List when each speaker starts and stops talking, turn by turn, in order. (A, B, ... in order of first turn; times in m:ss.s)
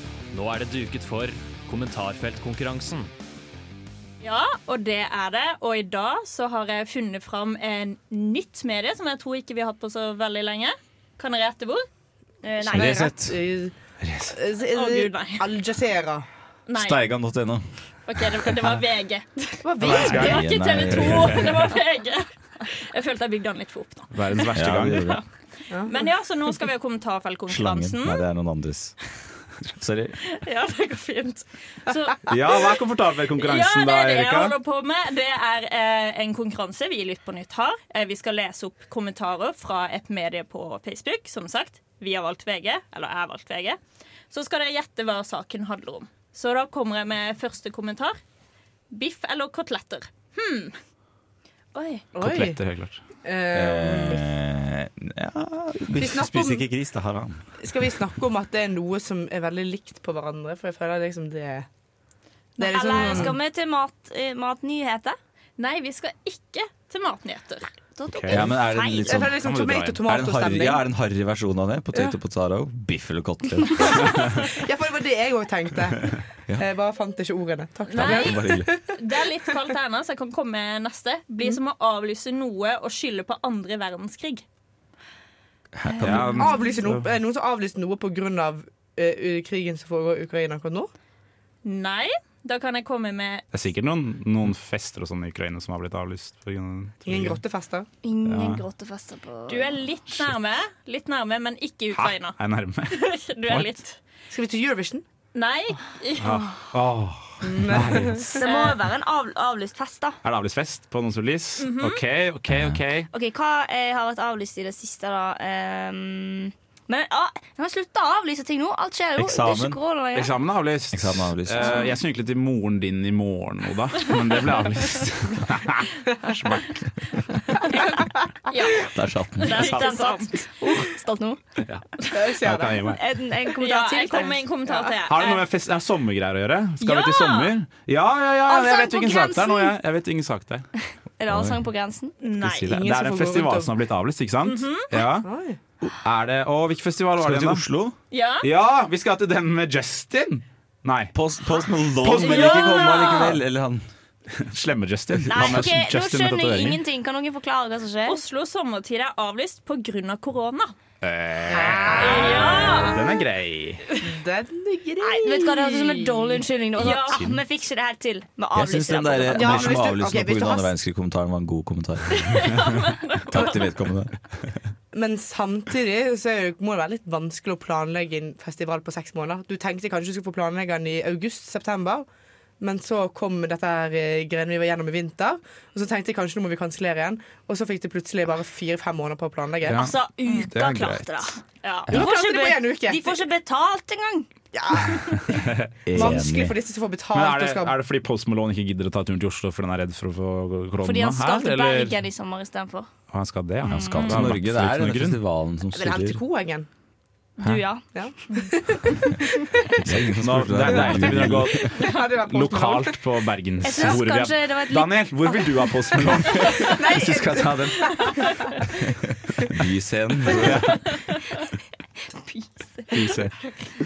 0:00.3-0:03.1 A
0:04.2-0:11.8 B
0:12.4-0:13.1 C
0:12.7-0:13.4 D
0:12.7-0:13.8 E
0:14.0-0:14.4 F
0:14.3-0:16.2 E
0:14.7-0:15.5 B
0:16.7-0:17.0 B
0:16.7-0:17.8 D
0:18.1-0:24.4 B
0:19.6-0:20.4 E
0:19.8-0:21.6 D
0:19.9-0:21.5 F
0:24.1-0:25.2 F
0:24.6-0:25.2 D
0:25.7-0:26.0 E
0:25.8-0:28.2 B
0:27.5-0:29.0 D
0:29.8-0:30.2 D
0:30.3-0:32.3 B
0:32.3-0:34.6 F
0:33.4-0:43.8 B
0:44.3-0:48.2 B
0:48.9-0:50.8 B
0:52.2-0:53.0 F
0:52.2-0:52.6 E
0:53.2-0:54.2 E
0:53.5-0:57.5 D
0:56.0-0:56.7 E
0:57.6-1:01.7 E
1:02.6-1:05.2 C
1:02.6-1:03.4 E
1:05.6-1:07.7 B
1:08.0-1:09.2 C
1:08.1-1:08.5 F
1:08.3-1:09.4 D
1:09.1-1:10.8 E
1:09.4-1:10.1 F
1:10.0-1:14.0 D
1:13.8-1:19.0 E
1:17.9-1:24.4 B
1:18.0-1:18.7 D
1:25.7-1:26.6 D
1:26.0-1:27.1 F
1:26.3-1:30.9 E
1:31.6-1:33.4 B
1:33.5-1:37.4 F
1:37.0-1:37.9 E
1:38.0-1:39.7 C
1:38.2-1:38.6 F
1:39.5-1:42.4 B
1:41.9-1:43.8 F
1:42.9-1:44.0 B
1:44.3-1:45.0 E
1:45.4-1:46.4 B
1:46.2-1:48.3 F
1:47.4-1:48.4 E
1:48.4-1:50.2 C
1:48.4-1:48.8 B
1:50.2-1:53.1 F
1:51.6-1:52.0 B
1:52.5-1:52.8 D
1:53.1-2:00.3 C
1:59.2-1:59.8 D
2:00.1-2:07.5 F
2:00.9-2:01.8 D
2:08.5-2:10.5 B
2:08.8-2:09.8 D
2:09.5-2:11.4 C
2:11.6-2:11.9 F
2:12.1-2:12.9 E
2:12.4-2:13.0 F
2:12.8-2:14.4 C
2:13.6-2:15.4 B
2:15.0-2:20.7 F
2:16.8-2:17.6 B
2:18.5-2:19.7 C
2:21.2-2:22.1 C
2:21.3-2:21.6 D
2:22.2-2:22.8 B
2:22.4-2:25.3 F
2:22.6-2:23.7 E
2:24.4-2:24.9 B
2:25.0-2:25.6 E
2:26.0-2:27.6 F
2:27.2-2:27.9 D
2:28.1-2:28.5 B
2:28.4-2:31.1 F
2:31.1-2:33.8 D
2:32.0-2:33.4 F
2:32.1-2:33.4 B
2:34.3-2:36.8 F
2:35.2-2:35.7 D
2:35.3-2:38.2 C
2:38.1-2:40.7 B
2:41.0-2:44.0 F
2:41.5-2:42.7 E
2:41.6-2:42.5 C
2:42.0-2:43.0 B
2:44.0-2:46.4 E
2:45.0-2:49.7 C
2:46.8-2:47.2 B
2:46.8-2:47.4 F
2:48.5-2:52.5 D
2:49.3-2:50.7 E
2:52.2-2:53.7 B
2:53.3-2:54.2 D
2:54.9-3:02.1 E
3:02.6-3:09.9 E
3:09.6-3:11.3 F
3:09.7-3:14.3 C
3:11.9-3:13.1 E
3:14.5-3:17.8 E
3:15.4-3:16.1 F
3:15.9-3:16.6 D
3:17.1-3:22.0 F
3:20.8-3:22.9 C
3:23.1-3:25.2 F
3:23.7-3:26.2 D
3:23.7-3:24.2 C
3:25.7-3:26.7 E
3:27.4-3:27.8 C
3:27.9-3:29.7 E
3:29.8-3:31.7 D
3:30.2-3:38.2 F
3:31.2-3:33.0 E
3:33.6-3:35.7 C
3:36.5-3:38.5 E
3:39.5-3:40.7 D
3:40.3-3:40.8 F
3:42.2-3:42.9 C
3:42.9-3:43.4 F